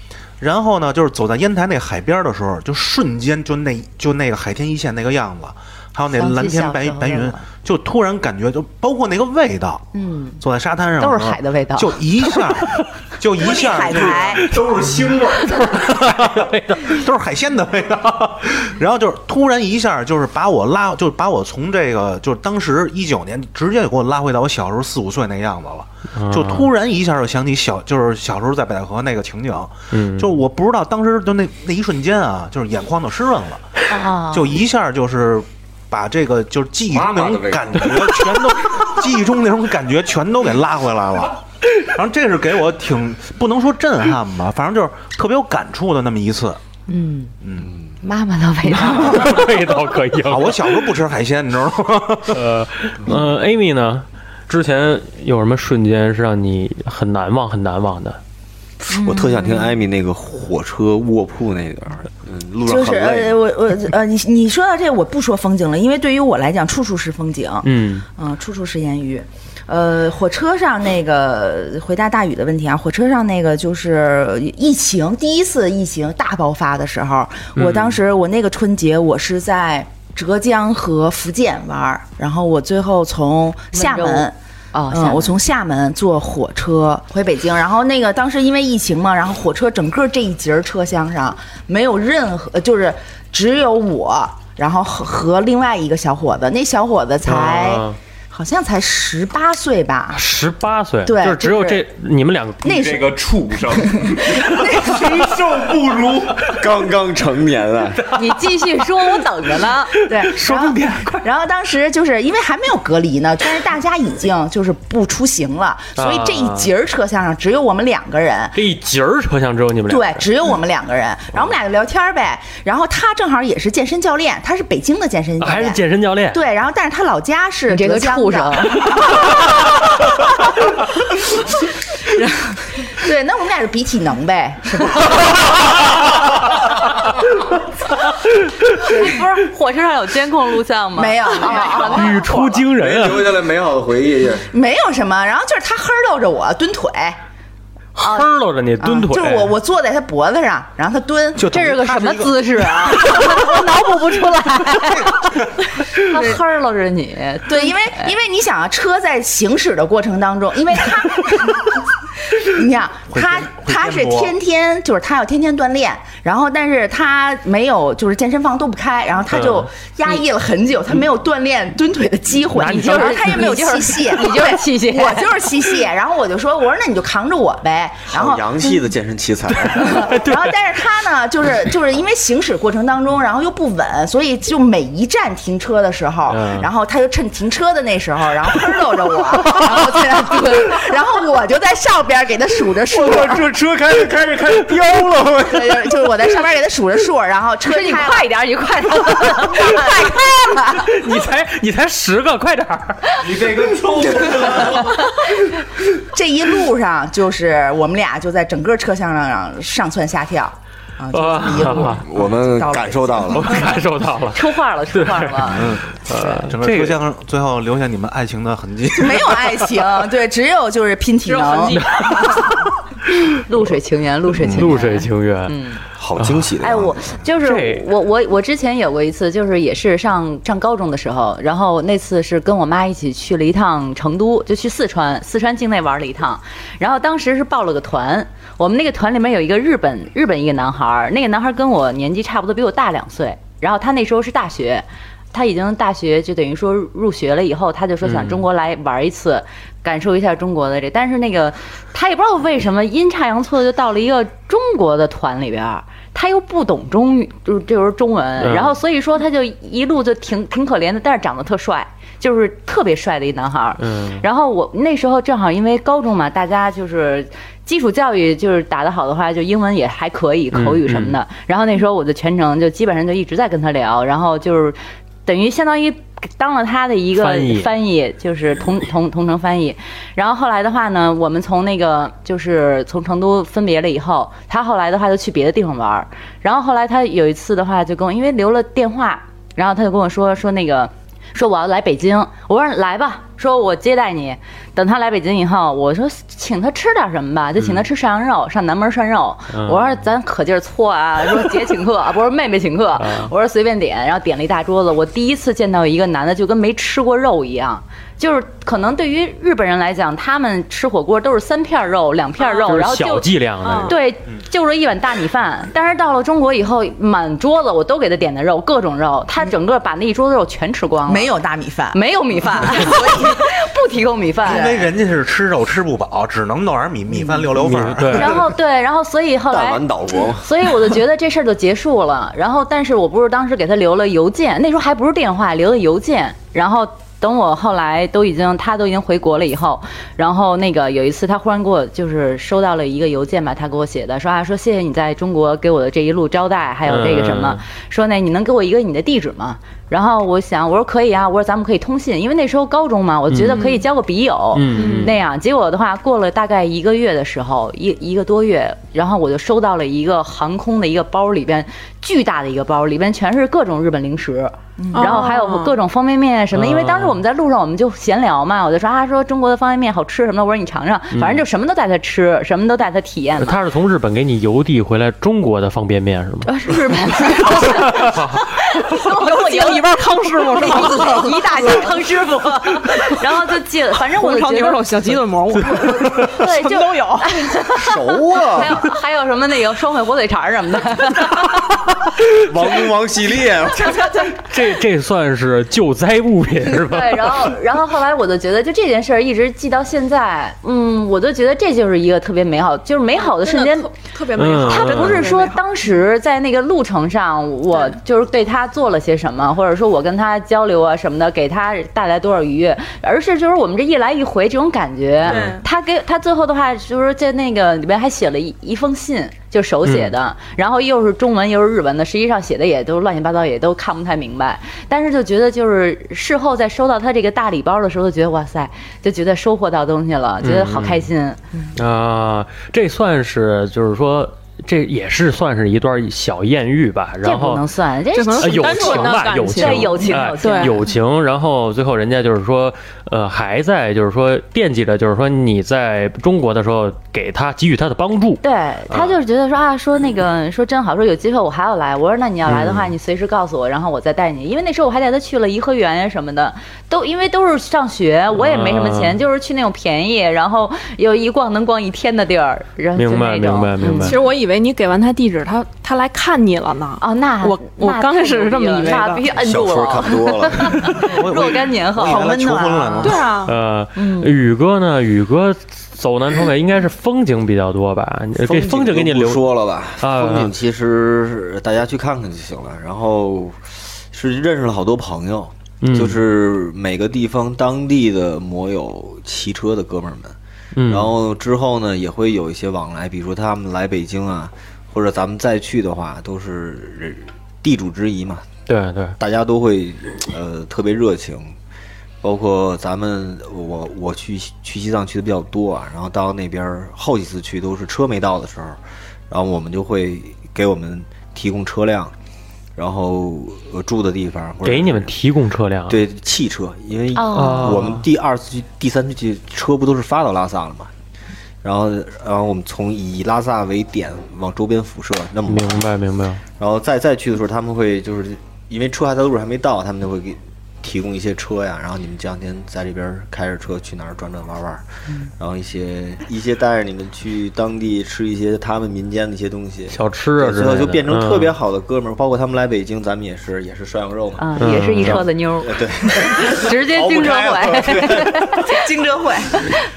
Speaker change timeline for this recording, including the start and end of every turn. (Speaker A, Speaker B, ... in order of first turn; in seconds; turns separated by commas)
Speaker A: 0.4-9.9, Speaker B: 6.1-7.4, Speaker B: 9.9-10.4, Speaker A: 10.4-14.7, Speaker B: 11.0-12.3, Speaker C: 13.4-14.5, Speaker D: 14.5-15.4, Speaker E: 15.5-17.0, Speaker A: 15.9-33.6, Speaker E: 26.1-26.7, Speaker E: 29.9-30.4, Speaker B: 33.9-34.5, Speaker A: 34.3-46.6, Speaker D: 36.9-38.5, Speaker B: 46.9-47.3, Speaker A: 47.4-47.7, Speaker B: 48.0-49.4, Speaker A: 48.8-49.5, Speaker E: 48.8-50.7, Speaker A: 50.2-52.6, Speaker E: 52.3-58.2, Speaker D: 58.8-63.4, Speaker B: 58.9-59.2, Speaker C: 62.6-84.3, Speaker E: 67.6-68.0, Speaker E: 77.5-78.0, Speaker B: 83.7-85.4, Speaker C: 84.9-100.2, Speaker E: 97.2-98.0, Speaker E: 100.1-102.8, Speaker C: 101.0-101.8, Speaker C: 102.6-105.4, Speaker D: 102.8-103.9, Speaker F: 104.8-106.2, Speaker D: 106.4-108.0, Speaker E: 108.1-108.6, Speaker B: 108.1-109.9, Speaker C: 110.0-118.6, Speaker E: 110.1-111.2, Speaker E: 116.0-116.7, Speaker E: 118.5-120.3, Speaker C: 119.9-125.8, Speaker E: 125.4-126.4, Speaker C: 126.3-130.2, Speaker B: 127.7-129.0, Speaker C: 132.1-136.0, Speaker B: 138.8-142.6, Speaker C: 138.9-139.1, Speaker C: 140.9-142.5, Speaker E: 141.8-143.3, Speaker D: 142.7-144.5, Speaker C: 144.5-147.2, Speaker E: 148.0-149.5, Speaker C: 148.8-151.5, Speaker A: 151.4-153.3, Speaker B: 151.5-155.3, Speaker A: 154.7-155.7, Speaker B: 155.9-158.1, Speaker C: 157.5-161.8, Speaker C: 162.3-178.7, Speaker A: 163.1-164.3, Speaker E: 169.3-169.7, Speaker E: 172.5-173.4, Speaker B: 172.6-175.3, Speaker D: 178.1-180.1, Speaker C: 179.7-193.4, Speaker E: 180.1-180.5, Speaker E: 186.3-186.7, Speaker D: 192.9-195.9, Speaker C: 195.5-198.3, Speaker B: 197.7-200.0, Speaker C: 199.0-200.9, Speaker E: 200.7-203.2, Speaker D: 203.3-204.8, Speaker F: 203.3-204.8, Speaker B: 204.9-205.3, Speaker C: 206.1-213.7, Speaker E: 211.1-212.0, Speaker D: 211.6-213.7, Speaker E: 213.3-217.0, Speaker B: 214.3-216.3, Speaker A: 215.5-219.7, Speaker C: 218.9-222.5, Speaker G: 221.3-222.2, Speaker E: 221.7-222.7, Speaker B: 223.4-225.8, Speaker E: 224.4-225.5, Speaker D: 226.0-227.1, Speaker E: 226.2-226.5, Speaker B: 226.6-313.3, Speaker E: 227.4-227.8, Speaker E: 248.0-248.4, Speaker E: 258.4-258.8, Speaker E: 263.8-264.2, Speaker E: 270.5-271.1, Speaker E: 277.1-277.7, Speaker E: 297.6-297.9, Speaker E: 299.5-300.0, Speaker E: 303.0-303.3, Speaker E: 312.6-314.0, Speaker G: 313.6-314.0, Speaker B: 313.8-321.3, Speaker C: 321.1-323.5, Speaker B: 321.9-324.8, Speaker A: 324.4-328.5, Speaker C: 324.4-324.9, Speaker C: 327.1-327.6, Speaker E: 327.6-328.3, Speaker B: 328.1-329.8, Speaker D: 329.5-330.7, Speaker B: 330.4-373.6, Speaker E: 346.9-347.6, Speaker E: 353.3-353.6, Speaker G: 353.5-353.8, Speaker E: 354.5-355.2, Speaker G: 354.7-355.1, Speaker C: 364.8-365.2, Speaker G: 364.9-365.8, Speaker E: 366.5-367.2, Speaker E: 371.1-371.4, Speaker E: 373.4-376.5, Speaker B: 376.4-391.7, Speaker G: 377.2-378.1, Speaker E: 377.9-378.4, Speaker G: 378.9-382.1, Speaker G: 382.9-383.2, Speaker G: 384.1-387.6, Speaker E: 385.6-386.3, Speaker D: 387.7-388.8, Speaker D: 392.3-394.1, Speaker E: 394.3-397.5, Speaker B: 396.8-403.9, Speaker G: 403.1-405.6, Speaker E: 404.3-405.3, Speaker B: 404.6-431.4, Speaker E: 415.2-415.5, Speaker G: 415.2-415.6, Speaker E: 419.9-420.1, Speaker E: 430.4-431.1, Speaker E: 431.7-437.6, Speaker B: 437.2-440.9, Speaker G: 438.1-440.8, Speaker E: 438.4-449.2, Speaker B: 448.4-464.2, Speaker E: 452.4-452.9, Speaker E: 458.4-459.2, Speaker E: 462.9-464.2, Speaker G: 464.0-469.3, Speaker B: 467.0-473.1, Speaker D: 469.3-471.0, Speaker A: 470.8-473.3, Speaker C: 472.0-473.2, Speaker G: 473.0-473.6, Speaker E: 473.4-479.4, Speaker B: 473.9-474.3, Speaker D: 478.3-498.5, Speaker E: 480.0-480.5, Speaker E: 485.8-486.2, Speaker E: 490.7-491.1, Speaker E: 498.7-499.2, Speaker D: 499.2-501.6, Speaker D: 502.2-512.1, Speaker D: 512.8-515.1, Speaker E: 514.6-516.0, Speaker D: 515.9-520.9, Speaker B: 517.1-517.8, Speaker E: 517.3-518.0, Speaker D: 521.6-525.8, Speaker E: 525.5-526.4, Speaker D: 526.6-534.9, Speaker D: 535.4-548.5, Speaker E: 539.9-541.5, Speaker B: 544.4-548.8, Speaker E: 544.6-545.2, Speaker C: 548.7-549.6